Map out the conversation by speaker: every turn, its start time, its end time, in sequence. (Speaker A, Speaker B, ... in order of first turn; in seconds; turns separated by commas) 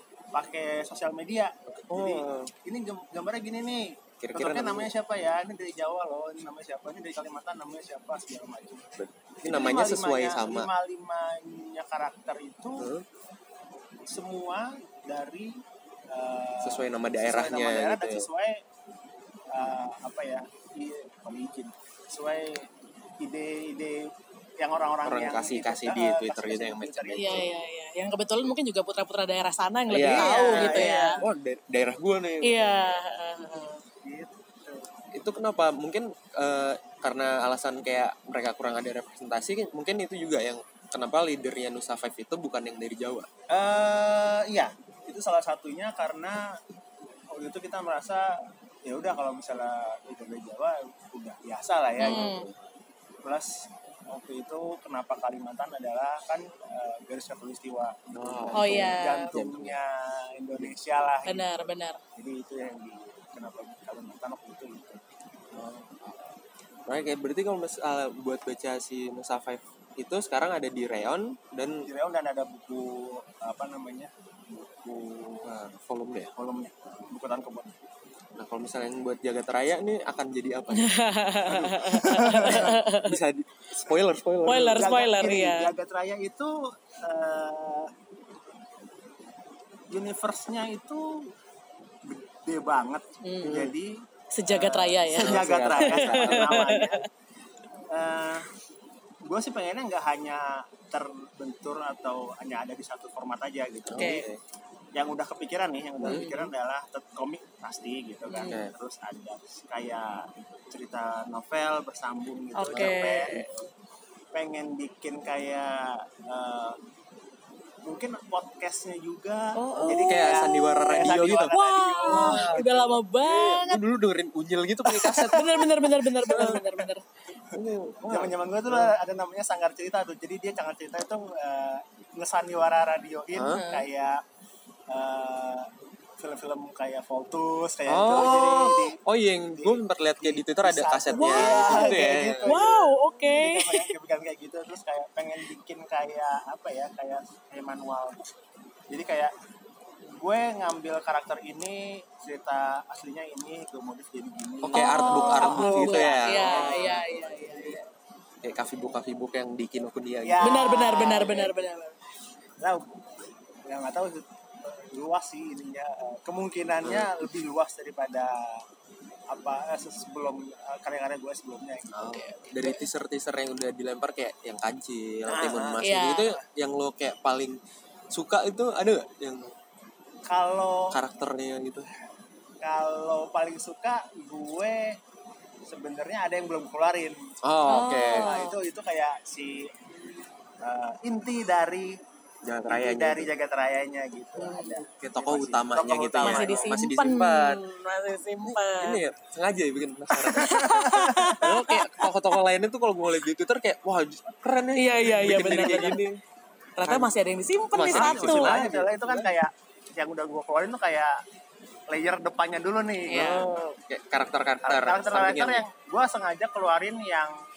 Speaker A: 0.3-8.9, Speaker B: 1.9-2.5, Speaker B: 4.2-4.9, Speaker B: 9.0-10.7, Speaker A: 9.4-12.9, Speaker B: 12.8-13.1, Speaker A: 14.1-15.6, Speaker A: 16.1-18.6, Speaker B: 16.6-18.3, Speaker A: 19.5-22.7, Speaker A: 23.2-27.5, Speaker B: 25.1-27.5, Speaker C: 27.2-31.2, Speaker B: 29.9-32.8, Speaker A: 30.1-31.2, Speaker C: 32.4-33.8, Speaker A: 33.4-34.9, Speaker B: 35.1-43.3, Speaker A: 43.5-46.6, Speaker A: 47.3-52.3, Speaker C: 52.0-52.5, Speaker B: 52.0-52.6, Speaker A: 53.2-53.5, Speaker A: 54.1-65.0, Speaker B: 58.1-59.8, Speaker C: 58.6-59.3, Speaker C: 61.2-62.0, Speaker B: 65.5-66.3, Speaker B: 66.9-71.9, Speaker A: 71.9-75.5, Speaker B: 75.4-76.3, Speaker A: 76.3-77.7, Speaker B: 78.4-84.9, Speaker C: 80.7-83.2, Speaker A: 81.9-82.8, Speaker C: 84.5-85.7, Speaker A: 84.8-87.9, Speaker A: 89.9-91.3, Speaker A: 92.1-97.1, Speaker C: 93.2-93.6, Speaker B: 93.4-93.7, Speaker C: 94.3-97.0, Speaker B: 95.2-96.7, Speaker A: 97.9-98.5, Speaker A: 99.2-104.3, Speaker B: 103.9-104.4, Speaker C: 104.0-104.2, Speaker A: 105.0-113.3, Speaker B: 106.0-106.4, Speaker C: 106.1-106.4, Speaker C: 108.3-108.6, Speaker B: 108.5-108.7, Speaker C: 112.6-113.5, Speaker B: 112.7-113.5, Speaker A: 114.3-116.8, Speaker A: 117.8-123.0, Speaker C: 119.6-123.8, Speaker B: 119.6-122.6, Speaker B: 123.2-126.6, Speaker C: 124.9-127.0, Speaker B: 127.5-128.9, Speaker A: 128.1-134.2, Speaker B: 133.3-133.6, Speaker C: 133.5-133.9, Speaker A: 134.9-139.0, Speaker B: 137.9-142.8, Speaker A: 139.5-148.4, Speaker C: 141.2-143.9, Speaker A: 148.9-149.3, Speaker A: 150.1-157.8, Speaker B: 154.6-157.0, Speaker C: 154.7-157.8, Speaker B: 158.4-160.6, Speaker A: 160.2-161.5, Speaker C: 160.4-162.0, Speaker A: 162.6-163.0, Speaker A: 163.7-168.6, Speaker B: 166.8-167.1, Speaker A: 169.3-172.3, Speaker B: 171.9-177.6, Speaker C: 172.1-172.8, Speaker A: 175.3-175.9, Speaker C: 175.8-176.3, Speaker B: 178.1-179.5, Speaker A: 180.3-180.9, Speaker B: 180.9-181.9, Speaker A: 182.6-185.0, Speaker A: 185.7-187.2, Speaker B: 187.4-188.3, Speaker C: 187.7-188.6, Speaker A: 188.2-189.7, Speaker A: 190.6-192.0, Speaker B: 192.4-193.3, Speaker A: 192.7-196.7, Speaker C: 194.4-194.8, Speaker B: 195.0-197.6, Speaker C: 196.2-199.0, Speaker B: 198.4-200.8, Speaker C: 200.3-202.1, Speaker A: 200.4-201.4, Speaker B: 201.4-206.2, Speaker C: 204.8-206.0, Speaker A: 205.3-205.9, Speaker C: 206.8-208.6, Speaker B: 206.8-207.1, Speaker B: 207.7-209.3, Speaker A: 207.9-211.2, Speaker A: 211.9-213.7, Speaker C: 213.1-213.4, Speaker B: 213.1-215.7, Speaker A: 214.6-217.4